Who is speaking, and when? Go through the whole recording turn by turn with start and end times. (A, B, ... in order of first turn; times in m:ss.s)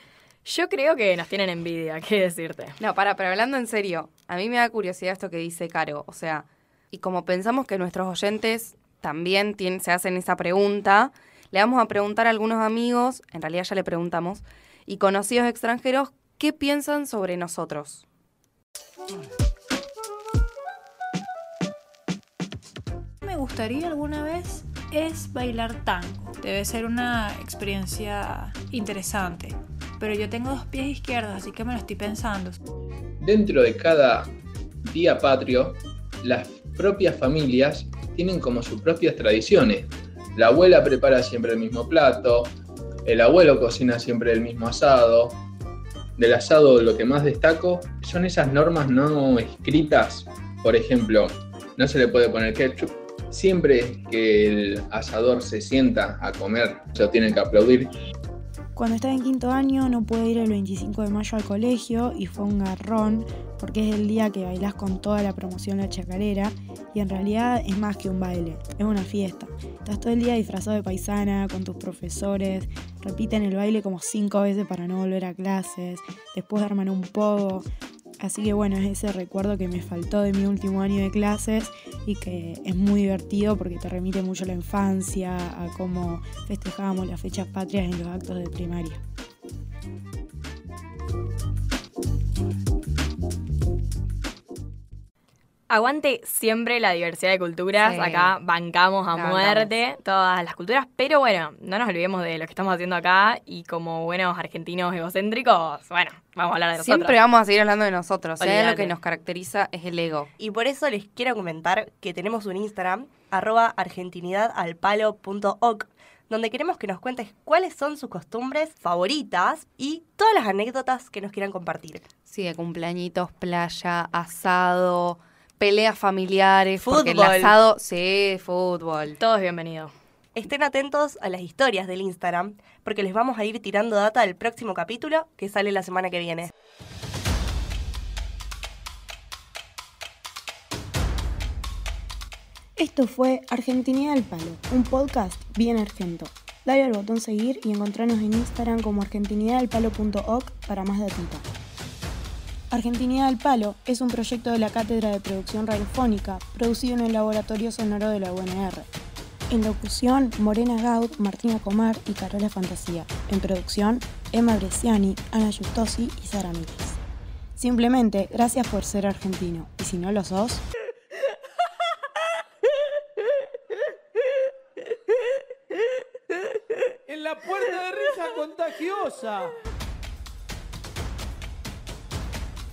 0:00.4-0:02.8 A
0:02.8-0:18.0 B
0:23.2-0:32.6 C
0:33.2-0:34.3 D
0:34.8-0:42.5 D
0:43.1-0:45.4 D
0:46.2-0:57.9 D
0:58.8-1:17.6 E
1:18.2-1:29.0 E
1:35.7-1:47.2 A
1:37.8-1:38.3 B
1:39.1-1:39.7 B
1:46.8-1:50.3 B
1:48.4-1:48.9 A
1:50.4-2:02.0 F
2:02.3-2:09.2 B
2:06.8-2:07.6 F
2:09.2-2:09.9 A
2:10.4-2:16.5 F
2:22.8-2:31.4 E
2:32.7-2:38.9 E
2:39.5-2:47.0 E
2:47.6-2:50.6 E
2:57.1-2:59.5 G